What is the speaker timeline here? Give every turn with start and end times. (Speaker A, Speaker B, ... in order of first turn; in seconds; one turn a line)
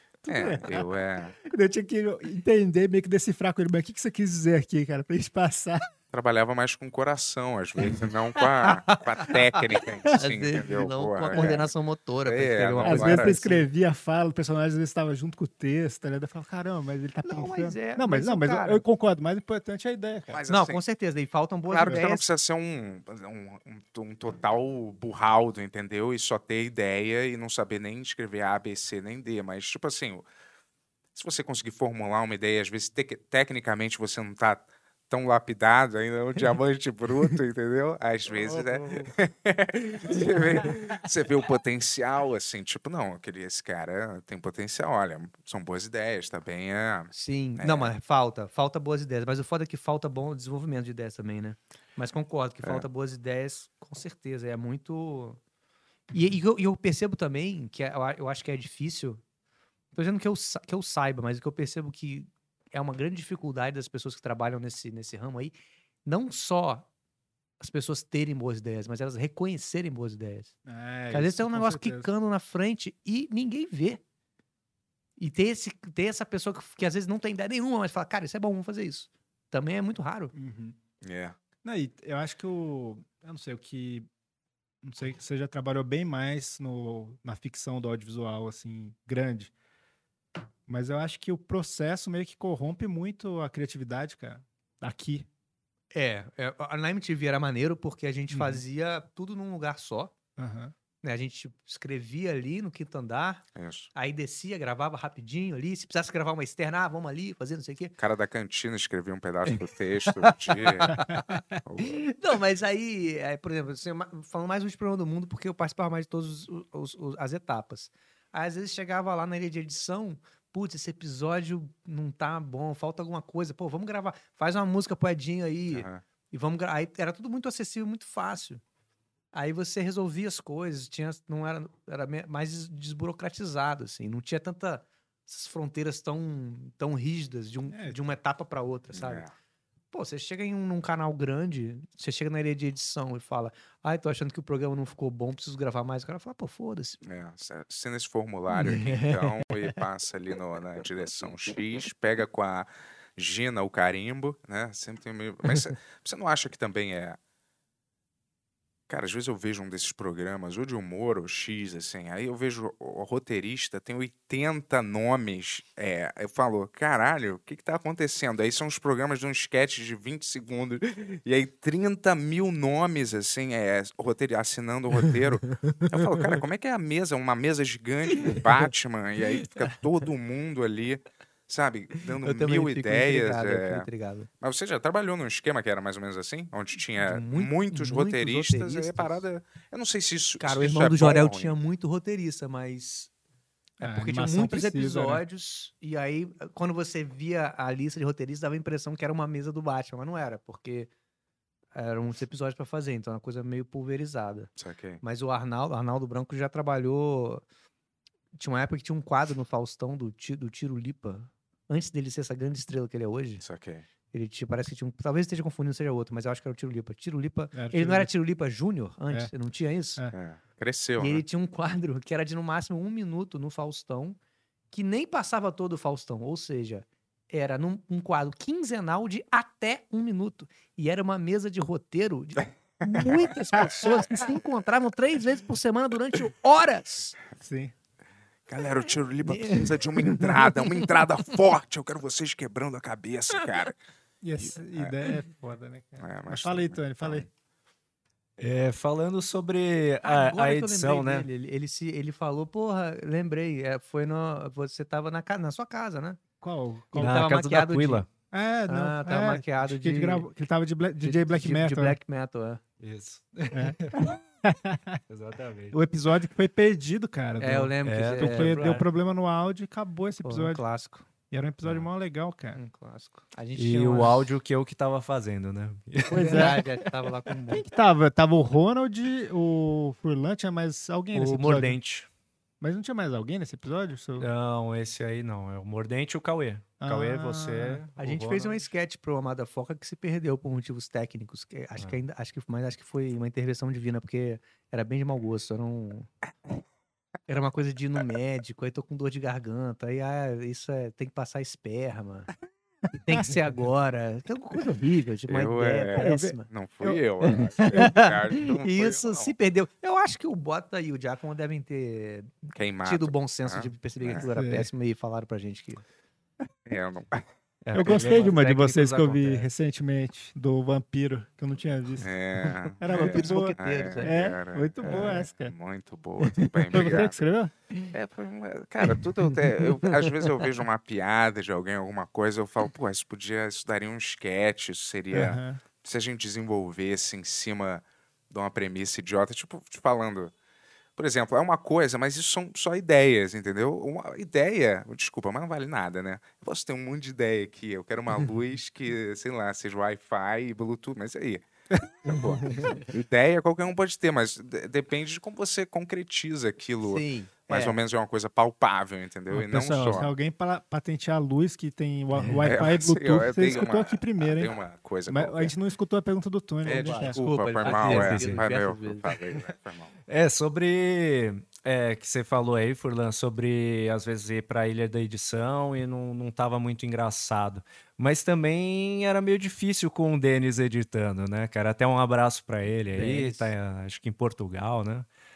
Speaker A: 0.2-5.8
Speaker B: 0.3-1.4
Speaker B: 6.1-11.7
Speaker C: 8.6-13.7
Speaker A: 11.3-11.6
Speaker B: 12.2-13.4
Speaker A: 12.8-20.4
Speaker C: 17.2-18.8
Speaker B: 20.3-20.8
Speaker C: 20.5-22.2
Speaker B: 21.7-30.2
Speaker B: 31.1-47.9
Speaker C: 38.5-39.0
Speaker A: 38.6-38.9
Speaker C: 47.1-55.4
Speaker C: 56.1-59.2
Speaker C: 59.9-65.5
Speaker C: 66.0-66.9
Speaker C: 67.6-70.5
Speaker A: 70.7-72.1
Speaker C: 71.1-74.0
Speaker C: 75.2-80.3
Speaker A: 80.3-80.8
Speaker B: 81.0-81.4
Speaker A: 81.6-84.1
Speaker A: 84.8-89.5
Speaker A: 90.7-95.3
Speaker C: 95.9-100.1
Speaker A: 98.3-98.6
Speaker A: 100.4-100.7
Speaker C: 101.0-103.4
Speaker B: 103.5-103.9
Speaker C: 103.9-107.9
Speaker B: 108.0-111.0
Speaker C: 109.5-128.6
Speaker A: 111.1-111.4
Speaker B: 111.6-112.1
Speaker B: 125.7-126.0
Speaker C: 129.3-139.3
Speaker A: 137.7-138.0
Speaker B: 138.9-139.3
Speaker C: 139.9-147.0
Speaker B: 147.0-157.2
Speaker C: 148.5-149.7
Speaker B: 158.9-183.9
Speaker C: 175.4-176.2
Speaker C: 178.1-178.7
Speaker C: 179.3-179.6
Speaker C: 182.2-184.3
Speaker B: 184.4-191.6
Speaker C: 187.0-189.2
Speaker C: 190.4-193.1
Speaker C: 193.8-200.9
Speaker A: 193.8-195.2
Speaker C: 201.7-204.5
Speaker B: 204.6-205.0
Speaker C: 205.0-207.4
Speaker C: 208.3-213.4
Speaker B: 213.4-213.9
Speaker C: 214.1-220.0
Speaker A: 217.5-218.1
Speaker B: 220.1-221.2
Speaker C: 221.0-224.2
Speaker C: 224.7-237.2
Speaker A: 233.5-234.2
Speaker A: 237.4-237.7
Speaker B: 238.5-243.8
Speaker C: 239.2-241.0
Speaker A: 244.2-247.3
Speaker B: 244.4-245.0
Speaker B: 246.0-247.2
Speaker D: 248.4-251.3
Speaker C: 250.0-256.2
Speaker A: 256.4-257.2
Speaker C: 256.9-258.1
Speaker D: 257.0-258.1
Speaker A: 258.3-262.0
Speaker C: 258.7-260.3
Speaker C: 261.0-262.6
Speaker D: 262.8-264.1
Speaker A: 263.5-265.0
Speaker D: 265.1-265.8
Speaker A: 265.7-270.6
Speaker C: 267.4-268.8
Speaker D: 267.8-268.8
Speaker C: 270.2-271.1
Speaker A: 271.3-272.6
Speaker C: 272.5-274.3
Speaker D: 273.5-276.8
Speaker C: 276.1-277.6
Speaker A: 276.1-276.6
Speaker A: 277.5-281.8
Speaker D: 281.1-282.1
Speaker A: 282.6-284.3
Speaker D: 284.2-288.7
Speaker A: 286.8-287.8
Speaker C: 288.0-296.1
Speaker C: 297.3-302.3
Speaker C: 302.9-315.8
Speaker B: 305.3-309.3
Speaker A: 305.9-306.3
Speaker B: 312.5-314.2
Speaker A: 314.2-314.7
Speaker B: 316.6-317.2
Speaker D: 317.6-319.5
Speaker A: 317.7-322.1
Speaker C: 317.8-318.1
Speaker B: 322.0-327.3
Speaker A: 322.8-325.5
Speaker C: 322.8-324.2
Speaker A: 326.7-327.5
Speaker B: 327.9-340.3
Speaker C: 329.5-330.4
Speaker A: 335.1-335.6
Speaker B: 340.9-360.1
Speaker A: 352.1-352.4
Speaker C: 352.4-352.8
Speaker C: 356.8-357.8
Speaker A: 359.3-364.5
Speaker B: 362.4-365.5
Speaker A: 365.1-367.2
Speaker B: 366.6-369.9
Speaker C: 366.7-369.1
Speaker D: 367.6-368.4
Speaker D: 370.1-385.1
Speaker C: 382.9-383.5